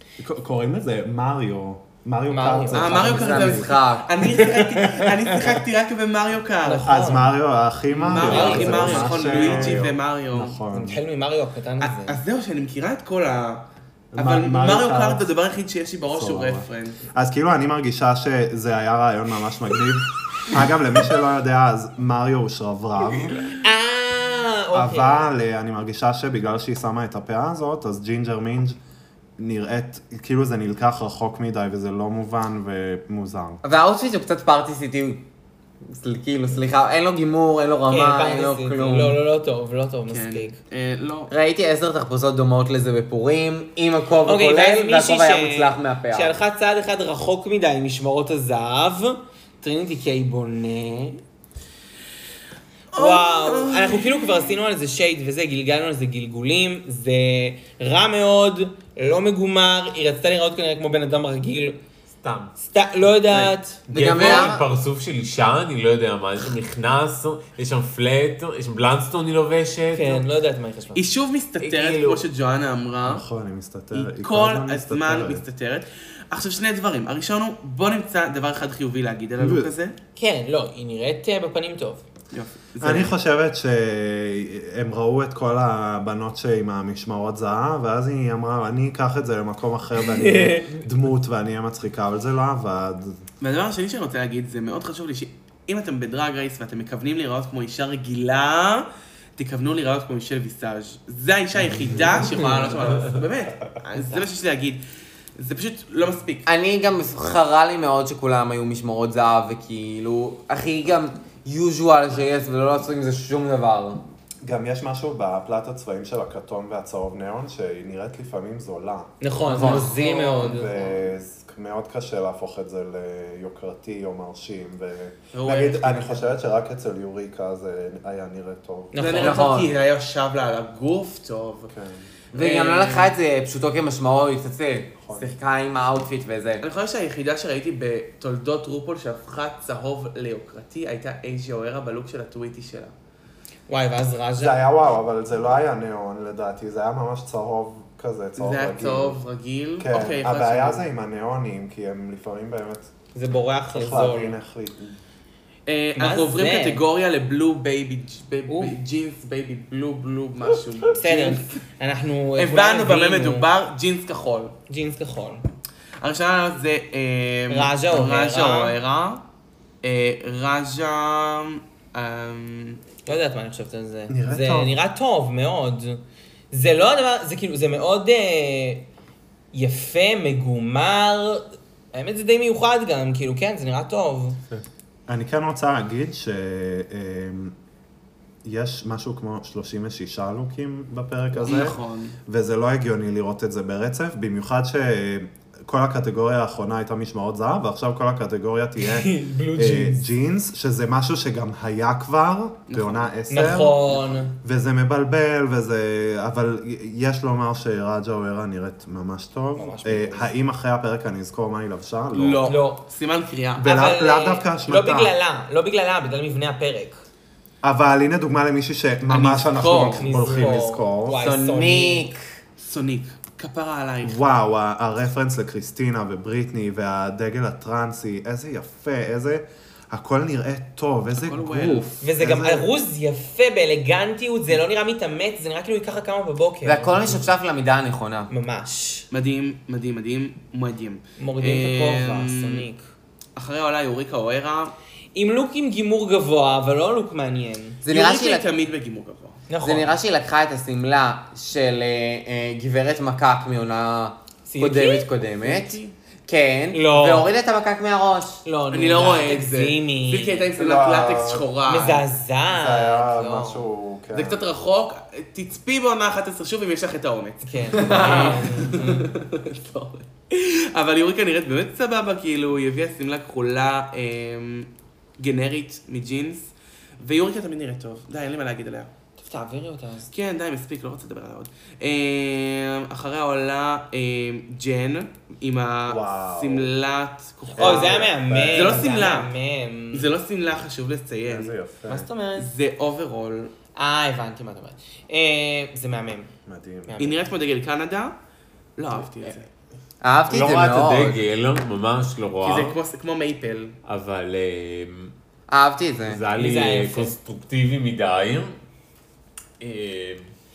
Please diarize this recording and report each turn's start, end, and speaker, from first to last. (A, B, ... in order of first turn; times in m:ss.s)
0:00.2-0:05.2 A
0:02.3-0:03.0 B
0:02.7-0:06.9 C
0:02.9-0:04.1 D
0:06.6-0:07.3 B
0:06.8-0:11.0 A
0:08.0-0:10.5 C
0:08.1-0:09.8 B
0:10.7-0:12.2 B
0:11.8-0:17.0 C
0:14.1-0:15.2 A
0:16.1-0:23.4 A
0:23.6-0:25.3 B
0:24.7-0:28.8 A
0:29.4-0:33.6 A
0:33.6-0:35.2 D
0:35.9-0:39.2 D
0:37.9-0:40.6 B
0:40.1-0:41.3 C
0:41.3-0:46.4 D
0:44.2-0:51.2 B
0:52.9-0:54.5 C
0:52.9-1:01.8 B
1:02.2-1:02.6 E
1:02.6-1:04.5 B
1:03.3-1:10.2 E
1:03.9-1:04.6 D
1:09.9-1:11.0 B
1:10.9-1:13.2 C
1:11.6-1:12.2 E
1:13.0-1:15.4 A
1:13.9-1:19.9 C
1:19.4-1:19.7 A
1:20.2-1:22.0 B
1:22.3-1:23.1 C
1:22.8-1:33.2 A
1:30.1-1:30.7 B
1:33.4-1:44.8 C
1:42.3-1:42.7 B
1:45.4-1:46.5 C
1:46.4-1:54.0 D
1:54.4-2:09.0 A
1:59.2-2:00.7 B
1:59.5-2:00.0 D
2:05.3-2:06.3 C
2:08.9-2:09.5 B
2:09.0-2:11.7 C
2:09.2-2:09.7 D
2:11.7-2:12.0 A
2:12.3-2:13.2 C
2:12.3-2:16.6 D
2:15.0-2:15.3 A
2:16.6-2:22.9 C
2:23.7-2:24.6 B
2:24.4-2:29.2 A
2:28.4-2:30.9 C
2:29.8-2:32.9 A
2:33.1-2:34.4 B
2:33.7-2:35.0 A
2:35.7-2:41.5 C
2:36.0-2:36.8 B
2:38.5-2:38.7 B
2:40.9-2:43.5 B
2:42.4-2:44.5 C
2:44.7-2:45.4 B
2:46.0-2:49.2 C
2:47.5-2:48.8 B
2:49.8-2:52.8 C
2:53.0-2:58.8 B
2:54.1-2:54.7 A
2:59.5-3:04.4 B
3:05.1-3:07.5 A
3:08.4-3:23.8 A
3:11.3-3:12.2 C
3:18.8-3:20.0 B
3:22.7-3:23.1 C
3:23.3-3:24.3 B
3:24.4-3:32.4 A
3:29.6-3:30.3 B
3:32.1-3:33.8 C
3:32.4-3:32.8 B
3:33.6-3:35.1 A
3:33.6-3:37.0 B
3:37.6-3:41.2 A
3:39.1-3:40.5 C
3:40.0-3:42.1 B
3:41.1-3:42.2 D
3:42.6-3:44.2 C
3:44.0-3:52.7 A
3:51.2-3:51.9 C
3:52.0-3:57.3 B
3:56.6-3:58.3 D
3:58.3-3:59.0 B
3:59.1-4:02.6 C
4:01.2-4:02.8 B
4:03.4-4:04.7 C
4:05.1-4:07.8 B
4:07.8-4:08.4 D
4:07.9-4:09.5 C
4:09.5-4:09.9 B
4:09.6-4:18.4 D
4:14.4-4:15.1 B
4:15.3-4:15.9 C
4:16.7-4:17.3 B
4:18.4-4:20.4 B
4:18.7-4:22.0 C
4:20.6-4:21.5 A
4:21.6-4:23.6 B
4:22.5-4:24.4 A
4:24.1-4:38.9 C
4:27.4-4:29.1 B
4:39.2-4:40.1 B
4:40.1-4:49.3 C
4:45.9-4:46.7 A
4:47.6-4:48.9 A
4:47.6-4:50.1 B
4:49.9-4:51.5 C
4:51.2-4:52.1 A
4:51.9-4:52.5 B
4:52.3-4:53.5 C
4:53.8-4:56.3 B
4:56.5-4:56.9 A
4:56.9-4:57.2 B
4:57.0-4:58.1 C
4:58.8-4:59.5 C
5:00.0-5:01.2 D
5:00.3-5:02.8 E
5:02.4-5:03.8 C
5:03.8-5:05.1 E
5:05.5-5:06.2 D
5:06.0-5:08.5 E
5:06.3-5:07.1 B
5:09.6-5:10.2 E